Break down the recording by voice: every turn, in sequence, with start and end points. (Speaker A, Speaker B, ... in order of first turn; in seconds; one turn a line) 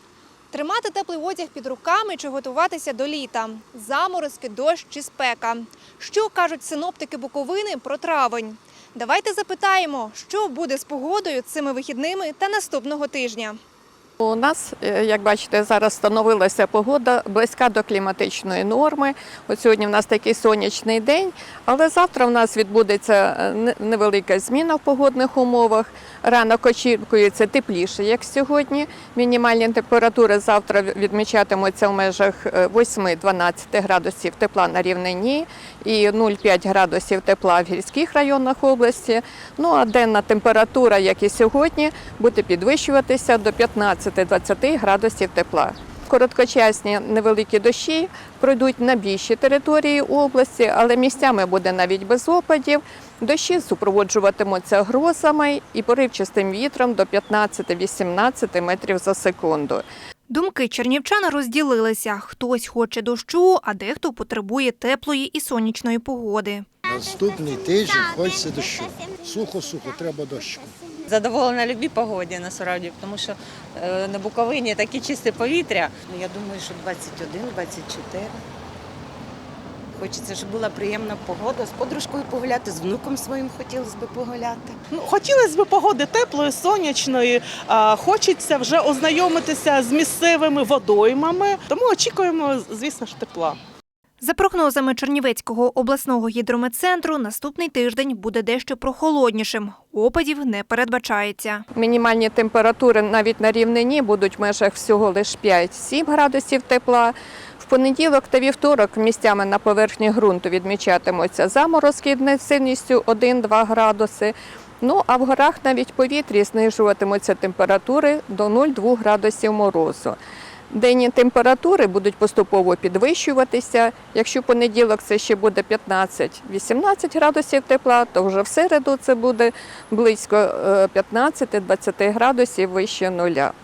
Speaker A: 0.5-13.6
Speaker B: 14.2-59.9
Speaker A: 60.3-66.7
Speaker C: 66.9-70.8
Speaker D: 71.1-75.9
Speaker E: 76.1-78.3
Speaker E: 80.0-84.8
Speaker F: 84.9-93.6
Speaker A: 94.2-101.6
Speaker B: 101.7-120.2
Speaker B: 120.7-133.5